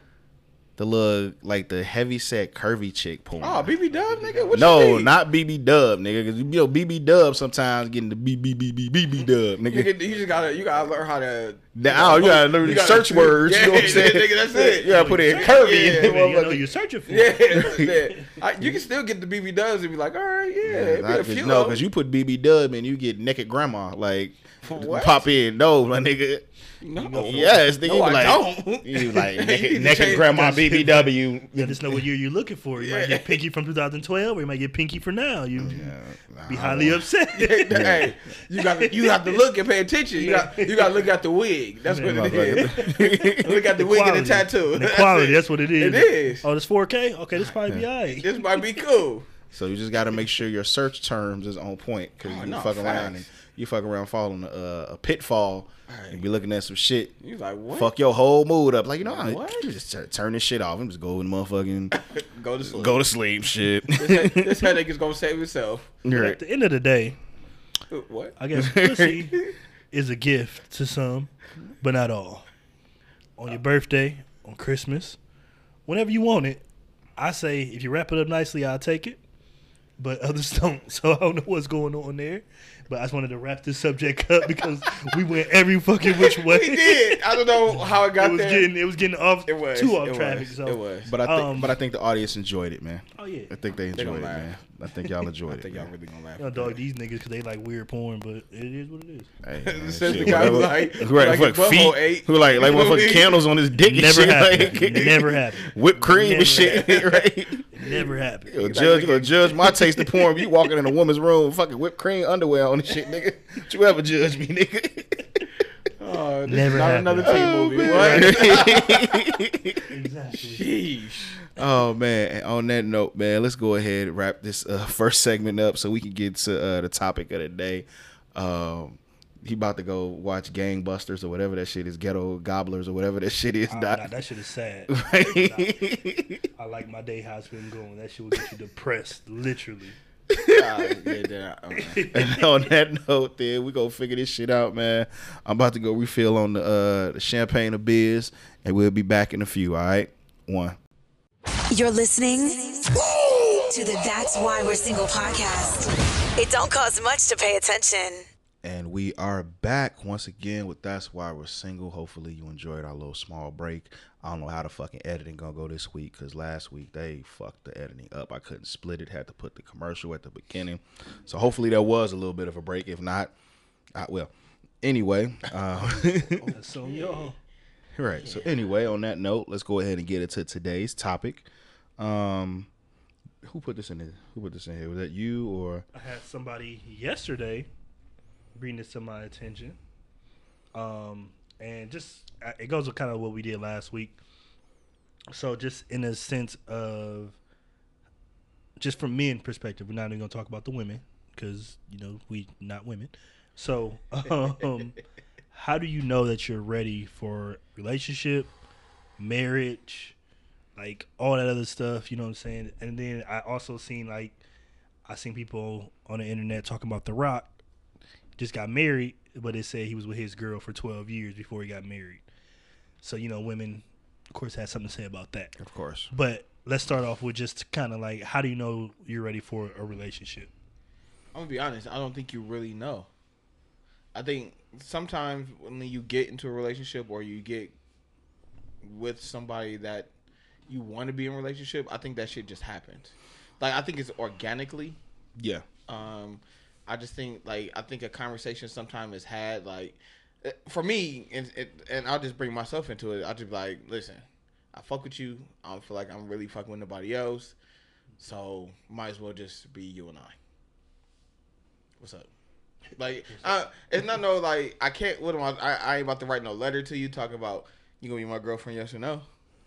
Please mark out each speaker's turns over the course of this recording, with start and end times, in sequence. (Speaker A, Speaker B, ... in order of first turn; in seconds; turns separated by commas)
Speaker A: 0.8-3.7, Speaker B: 3.4-5.1, Speaker C: 3.9-5.0, Speaker A: 4.5-9.9, Speaker B: 9.7-16.2, Speaker A: 11.8-16.6, Speaker C: 14.8-18.3, Speaker B: 17.1-21.8, Speaker A: 17.6-17.9, Speaker A: 20.6-26.5, Speaker B: 24.6-25.3, Speaker B: 26.8-30.8, Speaker C: 26.9-27.8, Speaker A: 27.2-32.0, Speaker C: 30.6-35.9, Speaker B: 32.8-33.4, Speaker A: 35.6-37.0, Speaker C: 36.5-39.4, Speaker B: 37.3-46.5, Speaker A: 37.7-38.1, Speaker C: 40.2-41.1, Speaker C: 41.9-48.8, Speaker A: 42.0-43.5, Speaker B: 48.1-49.3, Speaker A: 49.5-57.1, Speaker B: 52.2-53.3, Speaker B: 55.9-56.2, Speaker B: 57.2-57.9, Speaker A: 57.7-61.9, Speaker B: 59.0-59.7, Speaker B: 61.9-63.0, Speaker A: 62.7-64.7, Speaker B: 63.9-66.0, Speaker A: 66.0-66.4, Speaker C: 66.1-67.2, Speaker B: 67.9-68.4, Speaker C: 68.4-69.4, Speaker A: 68.5-69.2, Speaker C: 69.9-72.5, Speaker C: 73.4-75.2, Speaker C: 75.9-76.6, Speaker C: 77.2-79.2, Speaker C: 80.0-87.2, Speaker B: 86.0-88.7, Speaker C: 87.7-91.8, Speaker B: 89.5-91.1, Speaker A: 91.0-95.9, Speaker C: 93.2-93.6, Speaker B: 93.9-94.5, Speaker B: 95.5-96.8, Speaker C: 96.4-99.3, Speaker A: 99.4-107.6, Speaker B: 99.6-103.5, Speaker C: 100.0-100.8, Speaker C: 103.8-106.9, Speaker B: 106.3-107.3, Speaker C: 107.7-108.8, Speaker A: 108.5-115.4, Speaker B: 108.6-110.1, Speaker B: 116.0-119.3, Speaker C: 116.5-118.7, Speaker A: 117.2-119.9, Speaker C: 119.9-120.7, Speaker B: 120.3-121.4, Speaker A: 121.5-134.1, Speaker C: 133.7-135.9, Speaker A: 134.9-136.4, Speaker C: 136.6-140.0, Speaker A: 140.3-141.2, Speaker B: 140.5-142.2, Speaker C: 141.8-142.4, Speaker A: 142.1-150.8, Speaker D: 151.7-158.2, Speaker A: 158.6-173.3, Speaker A: 173.9-174.3, Speaker A: 174.8-176.5, Speaker B: 176.4-177.3, Speaker C: 176.5-177.4, Speaker A: 178.0-181.5, Speaker B: 178.2-178.5, Speaker A: 182.0-182.7, Speaker A: 183.4-185.8, Speaker C: 185.9-187.7, Speaker C: 188.6-189.8, Speaker C: 190.8-194.2, Speaker C: 195.3-197.4, Speaker C: 198.8-205.0, Speaker C: 205.5-208.5, Speaker C: 209.2-210.2, Speaker C: 210.8-214.4, Speaker C: 215.1-217.5, Speaker C: 218.4-222.2, Speaker C: 223.0-225.6, Speaker A: 225.6-226.1, Speaker C: 226.1-230.5, Speaker B: 231.3-233.1, Speaker B: 234.2-237.8, Speaker B: 238.8-240.1, Speaker B: 240.7-245.0, Speaker A: 245.4-245.6, Speaker B: 245.9-257.6, Speaker B: 258.2-260.4, Speaker B: 262.0-262.3, Speaker B: 263.0-269.2